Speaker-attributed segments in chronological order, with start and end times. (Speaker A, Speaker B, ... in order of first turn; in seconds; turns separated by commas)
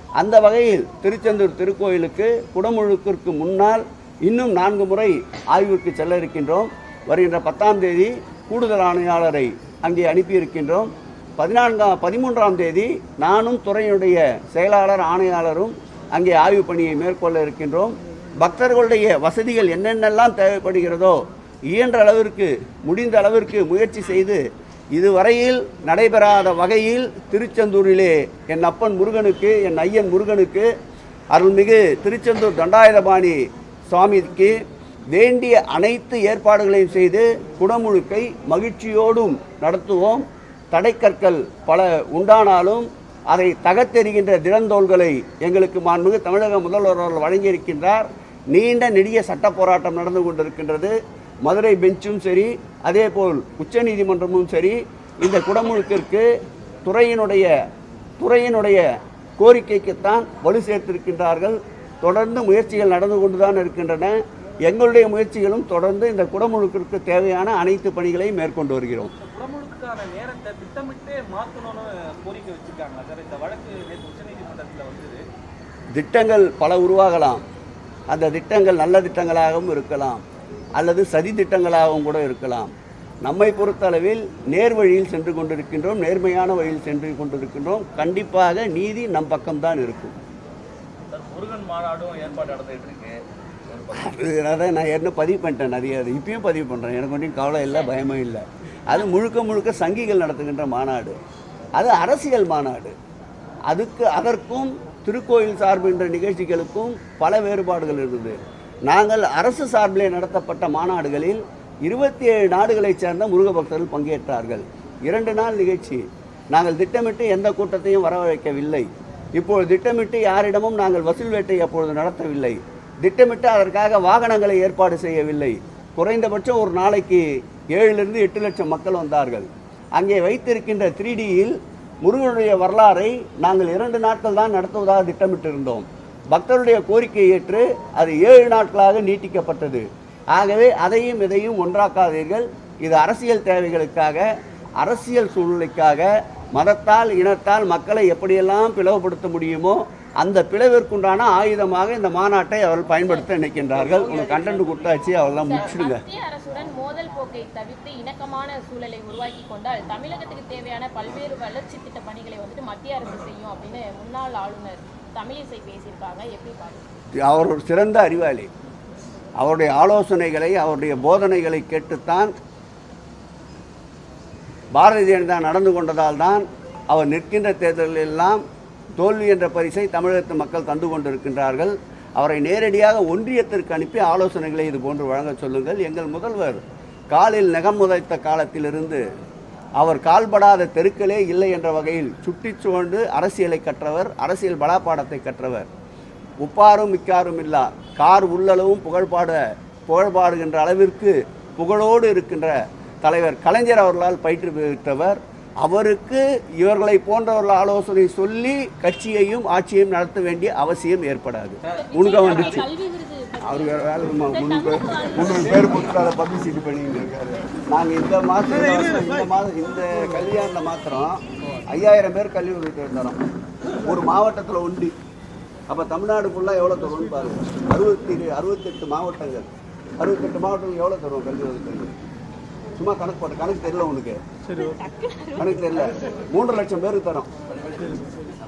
Speaker A: 0.2-24.4, Speaker A: 24.9-30.7, Speaker A: 31.3-33.4, Speaker A: 33.9-34.6, Speaker A: 35.1-56.3, Speaker A: 56.9-57.5, Speaker A: 58.2-58.8, Speaker A: 59.4-69.1, Speaker B: 69.2-75.2, Speaker A: 75.9-77.4, Speaker A: 78.1-80.2, Speaker A: 80.8-82.7, Speaker A: 83.2-90.2, Speaker C: 91.1-94.0, Speaker A: 94.0-101.2, Speaker A: 101.8-102.9, Speaker A: 103.7-108.4, Speaker A: 108.9-144.3, Speaker A: 144.8-156.0, Speaker D: 155.4-166.9, Speaker A: 167.2-168.5, Speaker A: 169.4-172.3, Speaker A: 174.7-178.4, Speaker A: 179.0-186.6, Speaker A: 187.1-189.0, Speaker A: 189.8-195.7, Speaker A: 196.4-212.7, Speaker B: 211.7-212.6, Speaker D: 211.7-216.1, Speaker A: 213.4-223.2, Speaker A: 223.8-224.9, Speaker A: 225.7-229.5, Speaker A: 230.0-231.9, Speaker A: 232.8-234.2, Speaker D: 234.5-235.6, Speaker A: 235.4-237.3